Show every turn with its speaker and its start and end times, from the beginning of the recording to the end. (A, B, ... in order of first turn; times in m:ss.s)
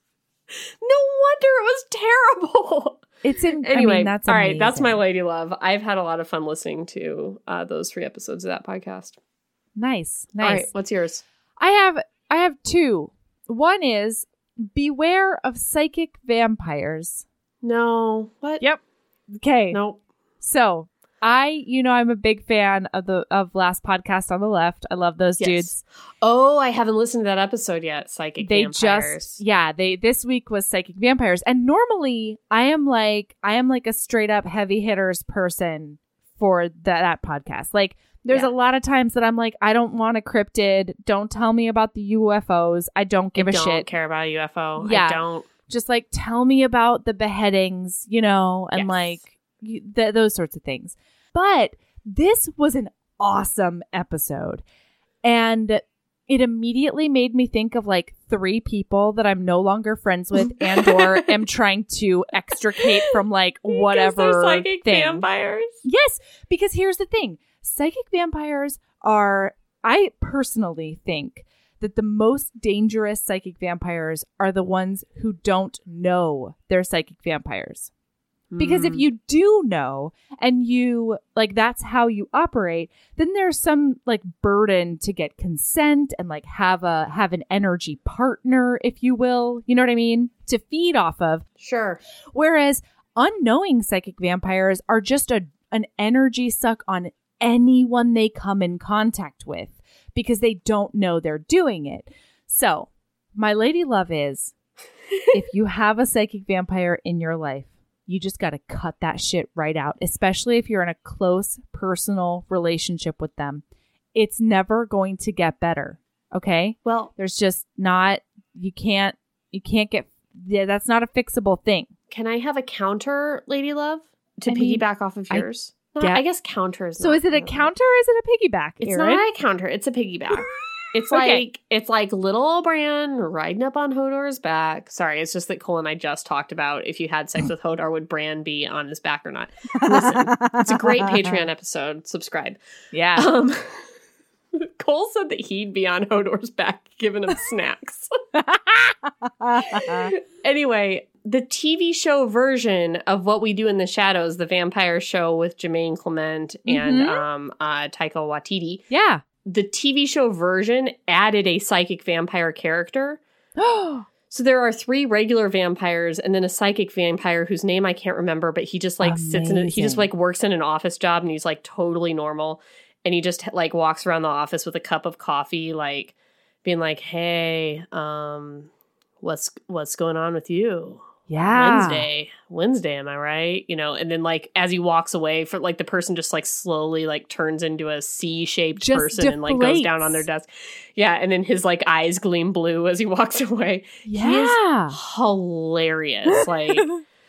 0:00.6-0:03.0 A
0:03.2-0:05.0 B
0:03.6-0:09.2 A
0:09.8-0:10.7 B
0:10.4-0:11.2 A
0:11.6-0:17.3 B
0:17.6-0:18.6 A
0:19.4-0:19.8 B
0:19.7-0:20.0 A
0:20.4-0:25.8 B
0:25.4-0:29.4 A
0:28.4-0:43.9 B
0:43.4-0:45.5 A
0:44.8-0:54.6 B
0:48.7-0:49.2 A
0:55.2-1:05.3 B
1:00.4-1:01.3 A
1:02.8-1:03.1 A
1:03.7-1:05.8 A
1:05.8-1:17.9 B
1:18.5-1:19.0 A
1:18.6-1:31.5 B
1:31.6-1:32.0 A
1:32.3-1:44.5 B
1:45.3-1:53.6 B
1:54.2-2:01.9 B
1:56.8-1:57.1 A
2:02.1-2:07.7 A
2:04.5-2:06.2 B
2:07.0-2:09.2 B
2:08.8-2:22.6 A
2:11.1-2:11.4 B
2:19.8-2:21.5 B
2:22.9-2:23.3 B
2:23.2-2:23.9 A
2:24.6-2:28.1 A
2:28.4-2:30.1 B
2:29.7-2:38.8 A
2:36.7-2:37.2 B
2:38.9-2:39.2 B
2:39.4-2:43.2 A
2:43.6-2:44.1 B
2:44.3-2:58.7 A
2:49.0-2:50.1 B
2:59.2-3:16.9 A
3:01.3-3:02.1 B
3:08.8-3:10.3 B
3:14.1-3:15.0 B
3:16.3-3:17.0 B